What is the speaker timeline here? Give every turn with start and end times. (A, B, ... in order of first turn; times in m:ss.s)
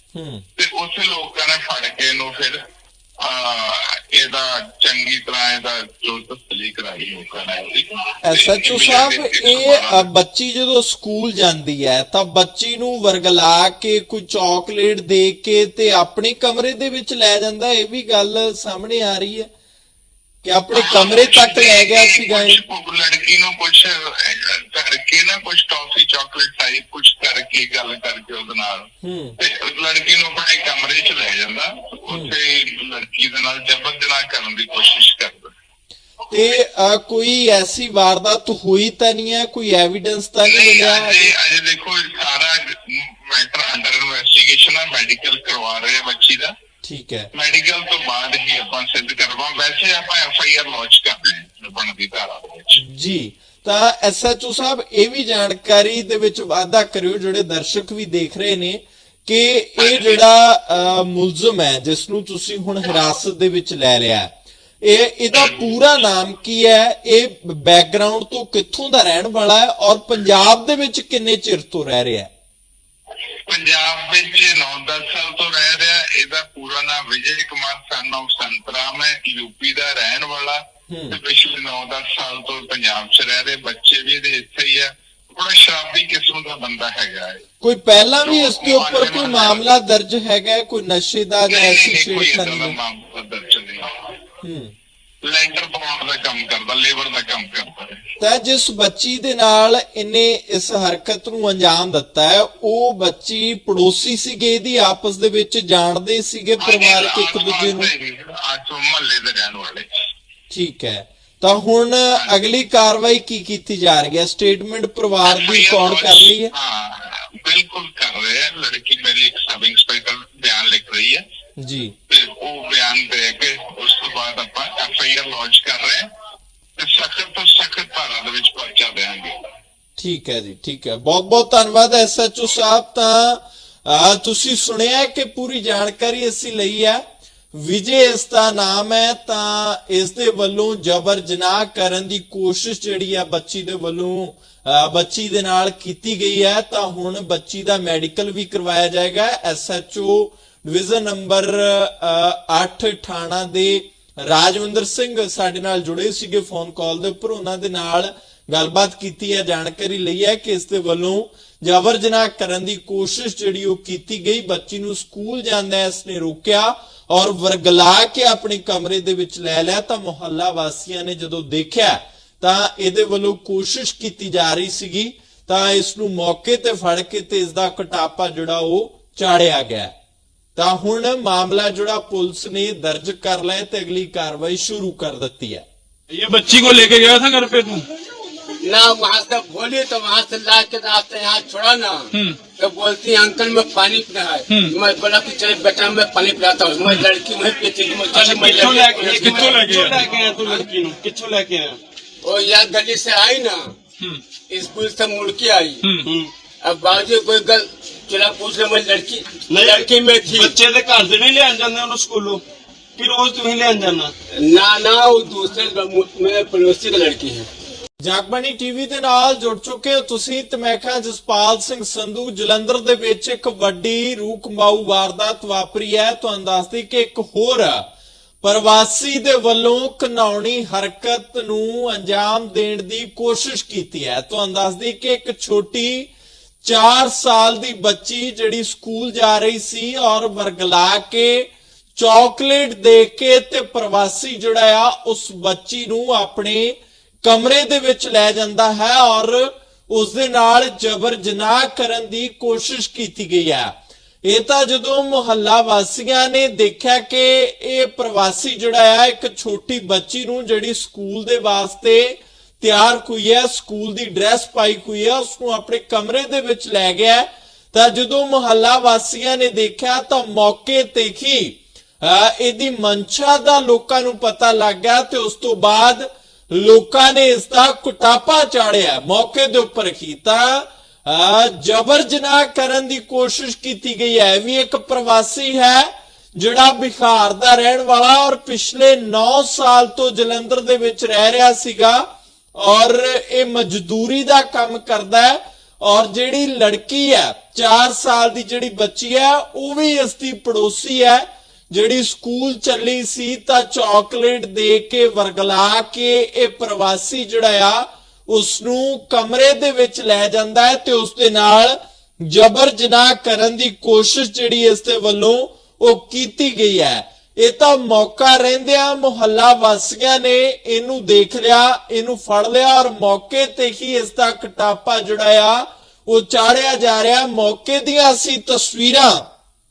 0:00.1-0:00.4 A
0:00.6-0:02.6 B
0:03.2-0:10.1 B
0:08.2-0:19.5 A
0:20.4-0:22.6 A
0:20.7-0:35.5 B
0:29.0-0:29.4 A
0:36.3-0:41.3 A
0:40.4-0:46.5 B
0:46.8-0:47.3 A
0:47.3-0:52.8 B
0:52.8-1:12.3 A
0:59.8-1:00.2 B
1:05.3-1:05.8 B
1:13.5-1:27.4 B
1:20.9-1:21.2 A
1:27.6-1:32.8 A
1:28.2-1:29.7 B
1:31.5-1:34.1 B
1:34.4-1:34.7 A
1:35.2-1:38.0 B
1:38.2-1:47.9 A
1:46.6-1:49.9 B
1:50.5-1:56.5 A
1:55.2-2:01.2 B
2:01.6-2:01.9 A
2:02.1-2:06.1 B
2:06.8-2:09.4 B
2:10.0-2:59.9 A
3:00.6-3:05.6 A
3:06.1-3:07.8 C
3:08.6-3:19.6 D
3:12.1-3:12.4 C
3:14.5-3:14.7 C
3:18.1-3:21.8 E
3:19.1-3:20.0 C
3:22.2-3:23.7 D
3:24.5-3:25.8 D
3:25.8-3:26.1 C
3:26.0-3:26.3 E
3:26.6-3:30.5 D
3:29.5-3:32.4 E
3:33.0-3:34.1 E
3:34.4-3:37.5 D
3:38.0-3:47.9 A
3:48.4-3:56.1 A
3:56.6-5:29.2 A